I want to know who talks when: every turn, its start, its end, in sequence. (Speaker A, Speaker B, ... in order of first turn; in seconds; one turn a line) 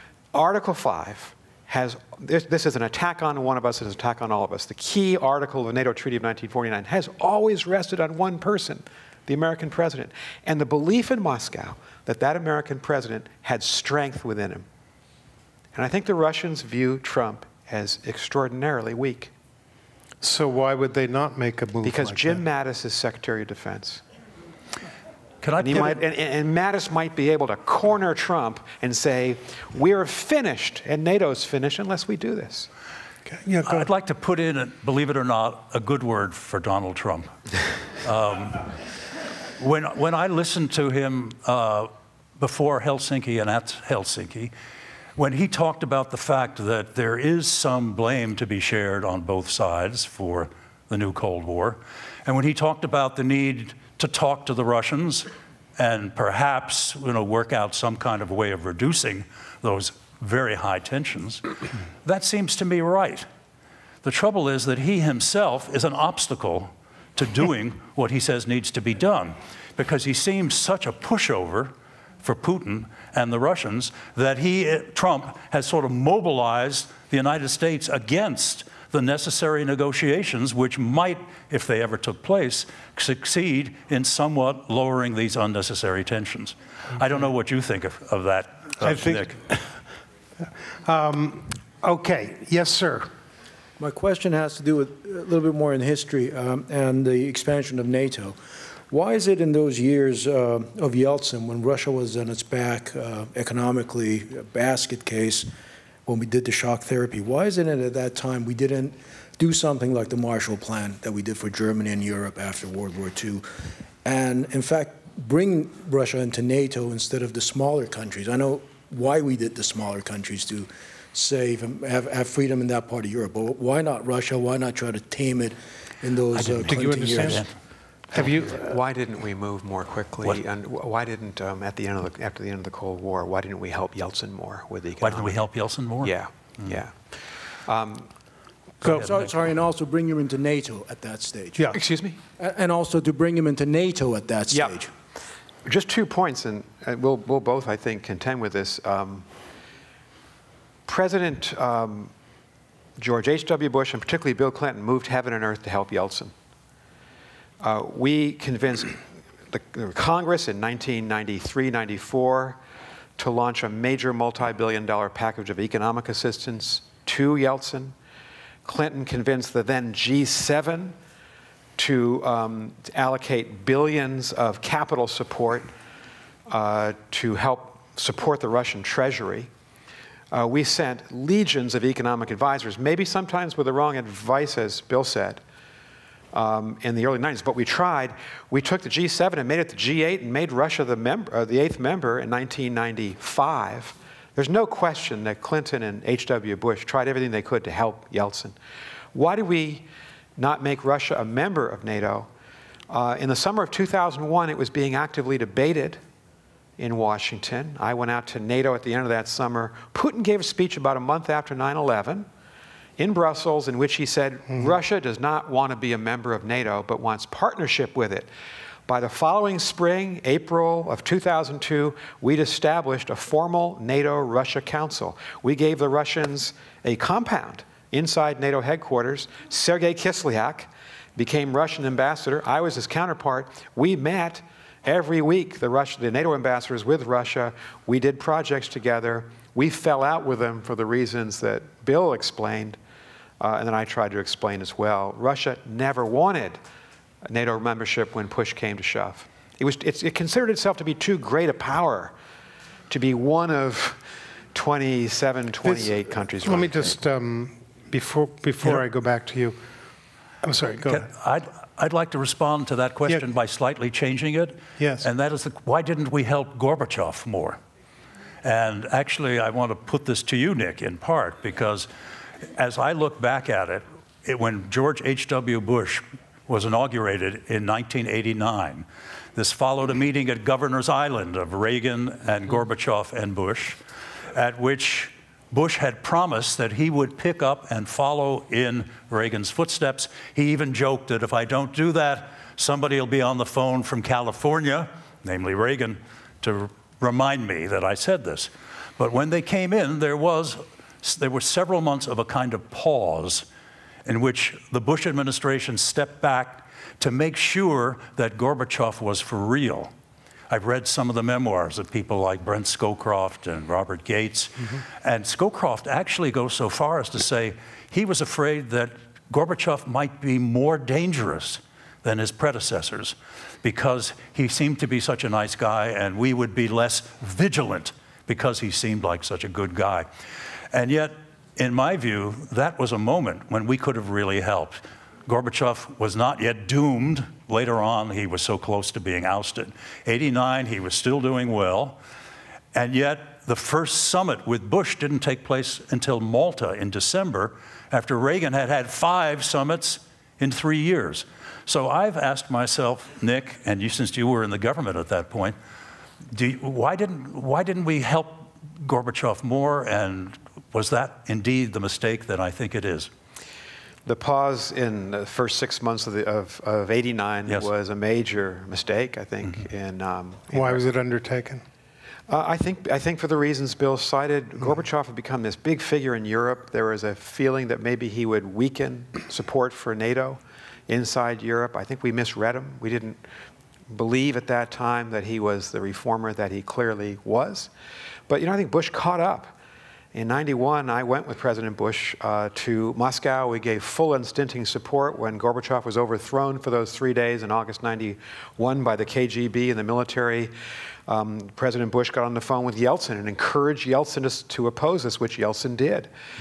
Speaker A: 0.3-14.7
Speaker A: 15.8-19.3
Speaker B: 20.2-22.4
Speaker A: 21.8-24.0
Speaker C: 25.4-26.0
Speaker A: 25.6-32.7
Speaker B: 33.3-33.9
Speaker C: 33.6-37.4
Speaker C: 38.0-38.7
Speaker C: 39.6-44.5
Speaker C: 45.2-61.5
Speaker C: 62.0-63.3
Speaker C: 64.0-89.4
Speaker B: 88.8-89.8
Speaker B: 90.8-93.1
Speaker D: 93.8-98.4
Speaker D: 98.9-105.5
Speaker D: 106.1-113.5
Speaker D: 114.0-127.5
Speaker C: 126.3-127.5
Speaker B: 126.7-127.5
Speaker B: 128.1-128.8
Speaker A: 128.5-135.4
Speaker C: 135.0-136.8
Speaker A: 136.0-137.1
Speaker A: 137.7-138.1
Speaker C: 138.8-139.3
Speaker D: 138.8-141.8
Speaker A: 141.7-142.2
Speaker D: 142.4-144.9
Speaker A: 144.5-144.8
Speaker A: 145.7-149.3
Speaker A: 150.9-152.1
Speaker A: 153.0-156.3
Speaker A: 157.6-162.6
Speaker A: 163.2-167.9
Speaker A: 168.7-171.0
Speaker A: 171.8-175.7
Speaker A: 176.5-179.5
Speaker A: 180.3-185.4
Speaker A: 186.3-198.6
Speaker A: 199.1-202.3
Speaker A: 202.9-206.0
Speaker A: 206.8-212.3
Speaker A: 213.0-218.3
Speaker A: 218.9-242.8
Speaker A: 243.4-246.6
Speaker A: 247.3-252.1
Speaker A: 252.9-254.0
Speaker A: 254.5-256.9
Speaker B: 256.4-259.6
Speaker B: 260.4-261.1
Speaker C: 260.9-267.6
Speaker B: 264.8-265.1
Speaker C: 268.4-271.9
Speaker C: 272.6-283.8
Speaker C: 284.3-303.5
Speaker C: 304.1-309.9
Speaker C: 310.5-330.1
Speaker C: 330.7-342.0
Speaker C: 342.7-355.6
Speaker C: 356.3-363.1
Speaker A: 364.1-370.8
Speaker B: 370.5-371.6
Speaker A: 372.3-383.2
Speaker A: 383.9-387.7
Speaker A: 388.3-389.5
Speaker A: 390.1-400.5
Speaker A: 401.1-406.1